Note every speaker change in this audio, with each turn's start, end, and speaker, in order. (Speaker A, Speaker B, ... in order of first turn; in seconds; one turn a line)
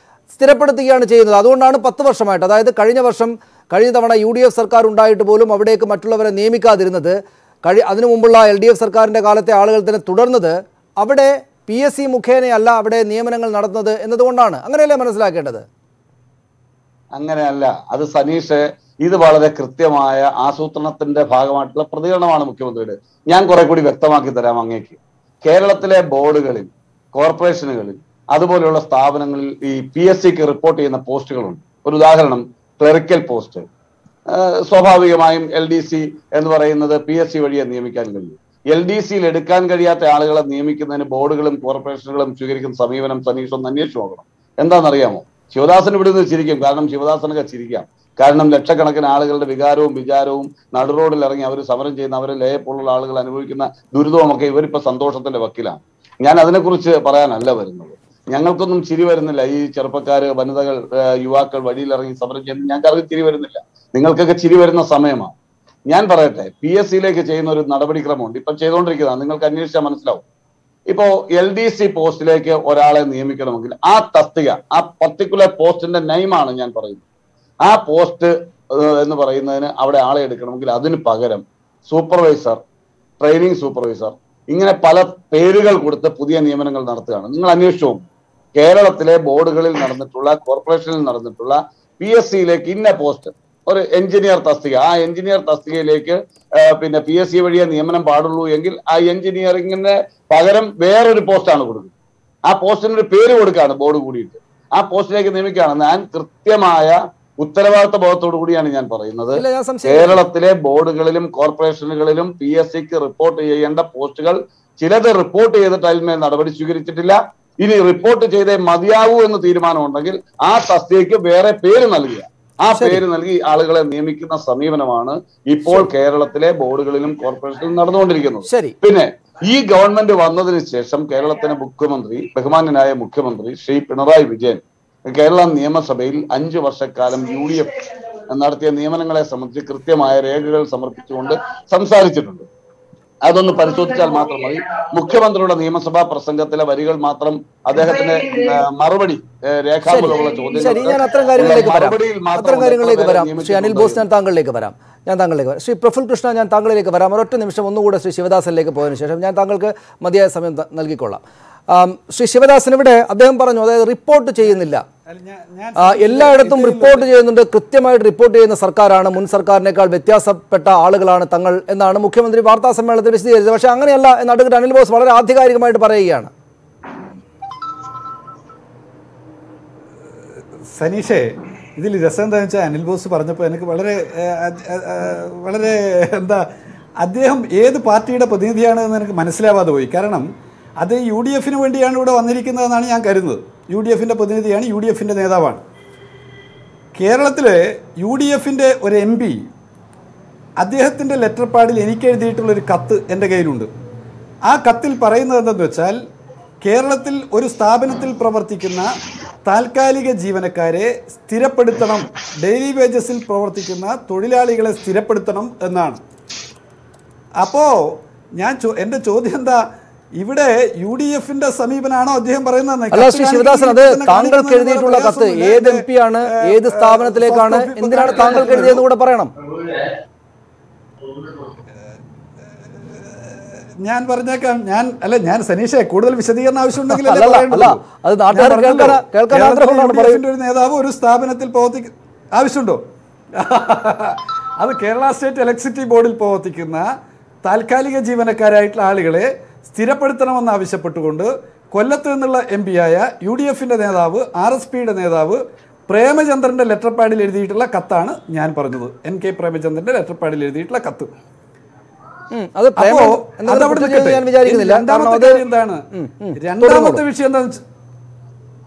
Speaker A: 0.3-15.7
Speaker B: 17.1-33.7
Speaker B: 34.3-65.3
Speaker B: 65.9-70.2
Speaker B: 70.9-77.0
Speaker B: 77.7-82.6
Speaker B: 83.2-88.0
Speaker B: 88.5-101.9
Speaker B: 102.5-142.5
Speaker A: 109.4-110.2
Speaker A: 122.8-123.0
Speaker A: 128.5-128.8
Speaker B: 143.2-154.0
Speaker A: 149.9-164.8
Speaker C: 164.4-167.1
Speaker A: 165.8-176.3
Speaker C: 180.7-186.4
Speaker C: 187.0-195.6
Speaker C: 197.0-199.5
Speaker C: 200.6-203.7
Speaker C: 204.5-206.0
Speaker C: 206.6-208.9
Speaker C: 209.5-216.0
Speaker C: 217.4-219.7
Speaker C: 220.2-225.8
Speaker A: 222.9-229.3
Speaker C: 226.5-228.8
Speaker C: 233.1-242.8
Speaker A: 236.9-240.2
Speaker C: 243.3-246.9
Speaker C: 247.4-261.1
Speaker A: 262.3-265.4
Speaker C: 262.8-265.8
Speaker A: 265.9-267.0
Speaker C: 266.4-267.6